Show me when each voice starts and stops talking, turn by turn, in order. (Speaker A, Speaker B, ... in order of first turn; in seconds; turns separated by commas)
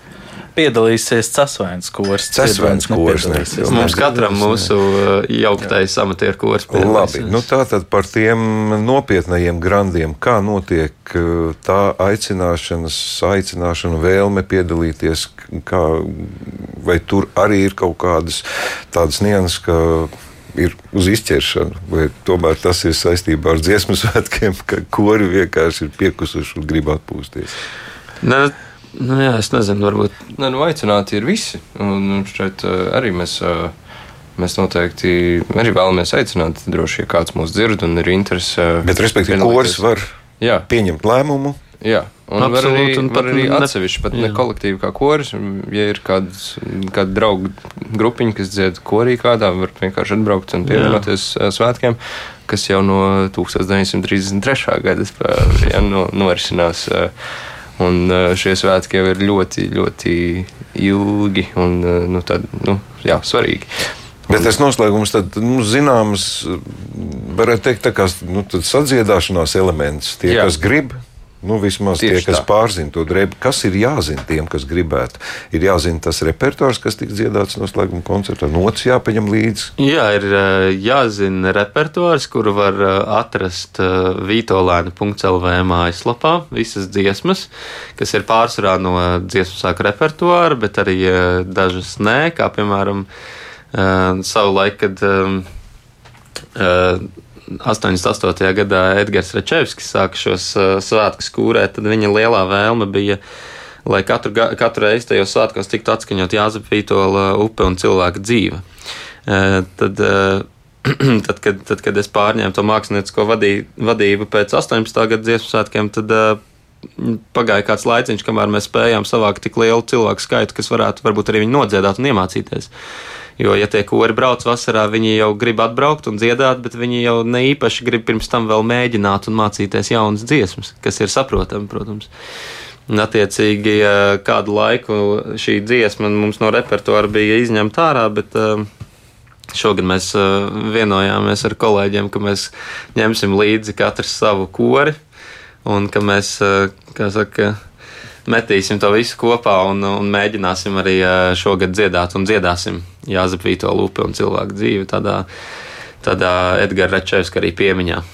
Speaker A: 0.6-3.9, Speaker B: 2.3-4.7, Speaker C: 3.7-7.5, Speaker B: 6.7-27.6, Speaker C: 28.2-30.2, Speaker D: 30.4-33.7, Speaker D: 34.4-39.8, Speaker B: 38.8-41.6, Speaker D: 40.4-40.7, Speaker D: 41.8-57.1, Speaker C: 42.4-44.5, Speaker C: 50.7-51.1, Speaker D: 57.8-63.7, Speaker B: 64.3-79.7, Speaker D: 72.0-72.5, Speaker C: 79.8-93.1, Speaker C: 93.7-95.5, Speaker C: 96.6-103.2, Speaker C: 103.9-108.6, Speaker C: 109.3-116.4, Speaker C: 117.0-122.7, Speaker C: 123.4-132.1, Speaker C: 132.9-138.7, Speaker C: 139.5-145.0, Speaker C: 145.7-147.6, Speaker C: 148.3-155.3, Speaker C: 156.0-158.0